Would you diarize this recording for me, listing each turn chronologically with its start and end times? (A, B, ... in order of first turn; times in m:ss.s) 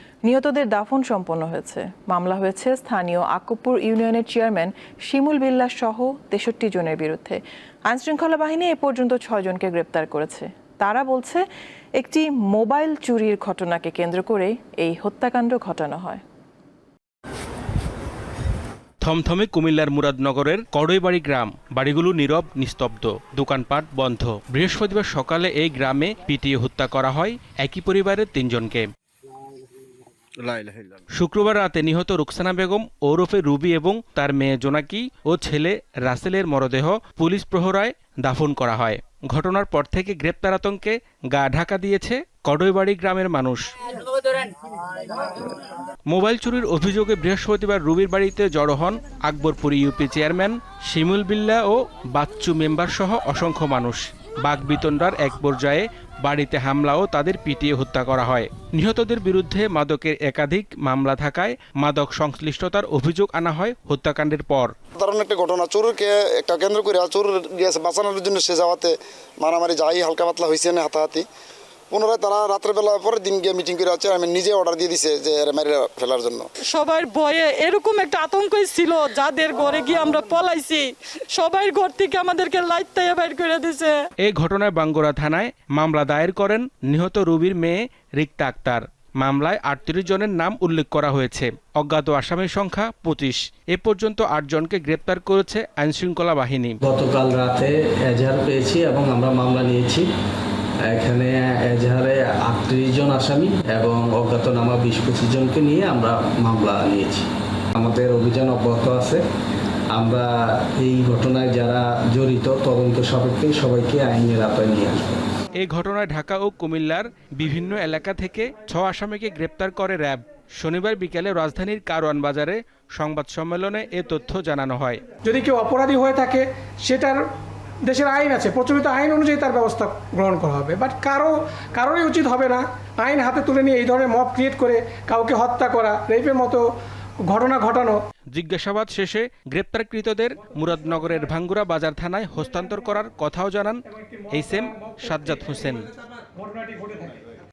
0:00.2-0:11.4 A
0:12.0-0:16.2 A
0:19.0-0:28.9 B
0:30.4-0:31.0 C
0:31.1-0:43.7 B
0:46.1-1:04.7 B
1:05.0-1:11.2 D
1:11.9-1:16.5 D
1:16.7-1:24.0 E
1:24.2-1:36.8 B
1:36.8-1:40.1 C
1:40.8-1:49.2 C
1:49.9-1:55.2 C
1:55.6-2:05.1 B
2:05.2-2:07.2 F
2:07.8-2:16.6 F
2:17.2-2:18.0 F
2:18.3-2:25.9 B
2:24.4-2:24.9 F
2:26.4-2:27.2 F